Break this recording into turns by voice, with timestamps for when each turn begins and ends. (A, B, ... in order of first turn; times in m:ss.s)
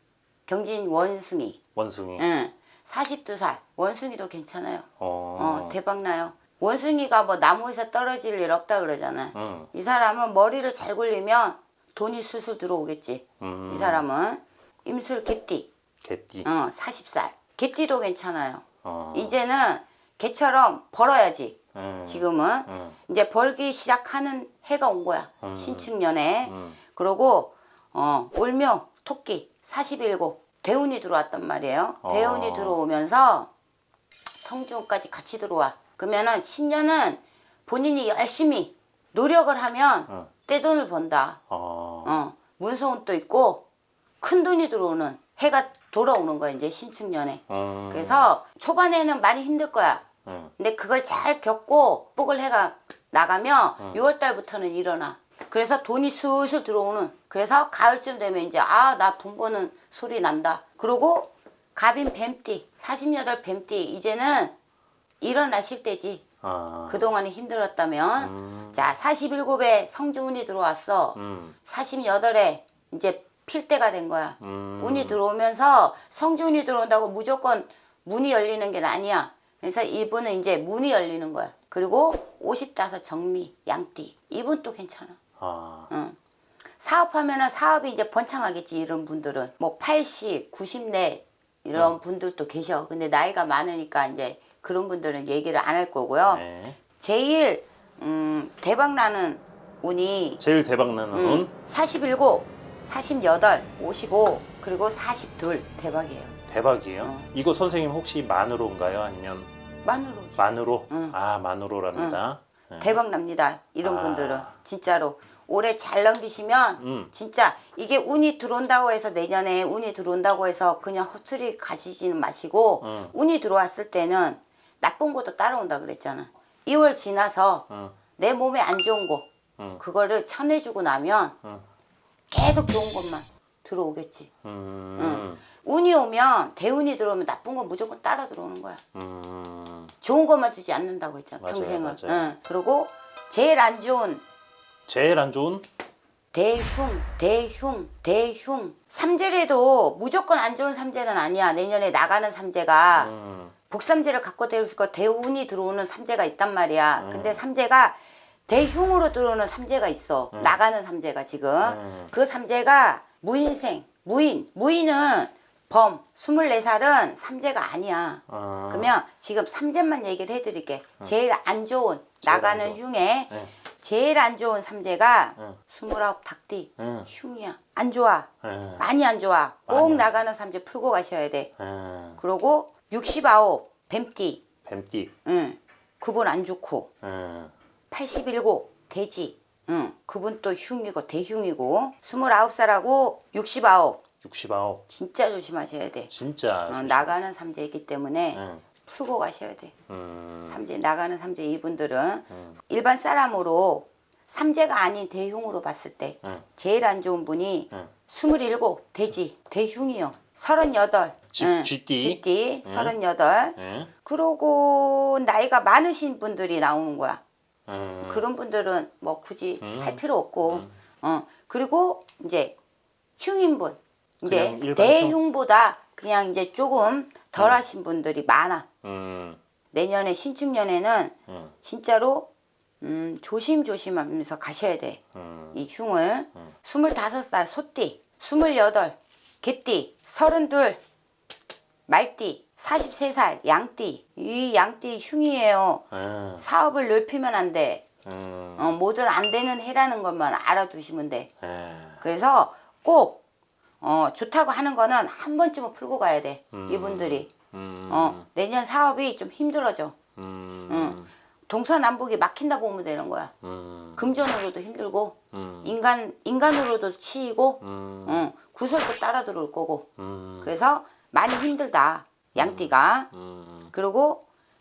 0:00.5-0:01.6 A
0:01.7-0:02.3 B
0:02.2-0:15.7 A
0:05.0-0:05.8 B
0:09.3-0:09.7 B
0:13.4-0:14.0 B
0:16.0-0:16.5 B
0:16.4-0:33.5 A
0:18.8-0:19.4 B
0:21.7-0:23.0 B
0:25.4-0:25.9 B
0:26.4-0:26.8 B
0:32.0-0:32.8 B
0:34.4-0:41.4 A
0:41.5-0:42.2 B
0:42.0-0:43.6 A
0:44.2-0:50.0 A
0:47.5-0:48.3 B
0:50.2-0:50.5 B
0:50.6-1:04.5 A
1:05.2-1:06.2 A
1:06.4-1:07.1 B
1:06.9-1:25.2 A
1:08.2-1:08.9 B
1:11.1-1:11.5 B
1:14.4-1:15.2 B
1:25.4-1:25.9 B
1:25.9-1:26.2 A
1:26.8-1:36.4 A
1:36.3-1:36.8 B
1:37.0-1:40.4 A
1:40.4-1:41.5 B
1:41.1-1:46.3 A
1:46.5-1:49.5 B
1:47.0-1:47.3 A
1:49.8-1:51.1 A
1:50.4-1:53.0 B
1:52.0-1:52.2 A
1:52.8-2:09.3 A
1:53.8-1:54.5 B
1:56.8-1:57.1 B
2:02.8-2:03.1 B
2:07.7-2:08.0 B
2:09.8-2:11.4 A
2:12.3-2:14.3 A
2:14.4-2:15.4 B
2:15.0-2:18.8 A
2:18.9-2:19.9 B
2:20.0-2:24.2 A
2:21.4-2:22.3 B
2:24.9-2:25.7 B
2:26.3-2:33.1 A
2:32.9-2:33.5 B
2:33.7-3:01.5 A
2:37.0-2:37.4 B
2:40.3-2:40.6 B
2:41.6-2:42.1 B
2:48.3-2:49.0 B
2:52.2-2:52.8 B
2:56.8-2:57.1 B
2:58.4-2:58.9 B
2:59.7-3:00.1 B
3:01.6-3:02.2 B
3:02.2-3:04.4 A
3:04.6-3:05.1 B
3:05.2-3:06.9 A
3:07.0-3:07.5 B
3:07.9-3:14.0 A
3:14.2-3:14.8 B
3:14.9-3:16.1 A
3:16.1-3:17.2 B
3:16.7-3:19.7 A
3:18.3-3:18.6 B
3:19.9-3:20.6 B
3:20.4-3:37.2 A
3:22.3-3:22.6 B
3:31.3-3:33.0 B
3:33.6-3:33.9 B
3:37.7-3:38.2 B
3:38.0-3:42.6 A
3:39.6-3:40.7 B
3:43.2-3:48.7 A
3:44.2-3:45.2 B
3:48.8-3:49.4 B
3:49.7-3:52.3 A
3:51.3-3:51.5 B
3:52.8-3:55.0 A
3:55.1-3:55.6 B
3:55.5-4:00.8 A
4:01.9-4:05.9 A
4:05.9-4:06.4 B
4:06.4-4:07.8 A
4:08.0-4:08.8 B
4:08.6-4:11.3 A
4:11.4-4:12.0 B
4:12.0-4:13.2 A
4:13.8-4:17.3 A
4:16.5-4:18.2 B
4:17.9-4:20.0 A
4:20.2-4:21.1 B
4:20.7-4:23.3 A
4:23.4-4:24.2 B
4:24.0-4:29.9 A
4:25.3-4:25.7 B
4:27.6-4:28.3 B
4:30.0-4:30.6 B
4:30.4-4:33.1 A
4:32.4-4:33.7 B
4:33.7-4:34.2 A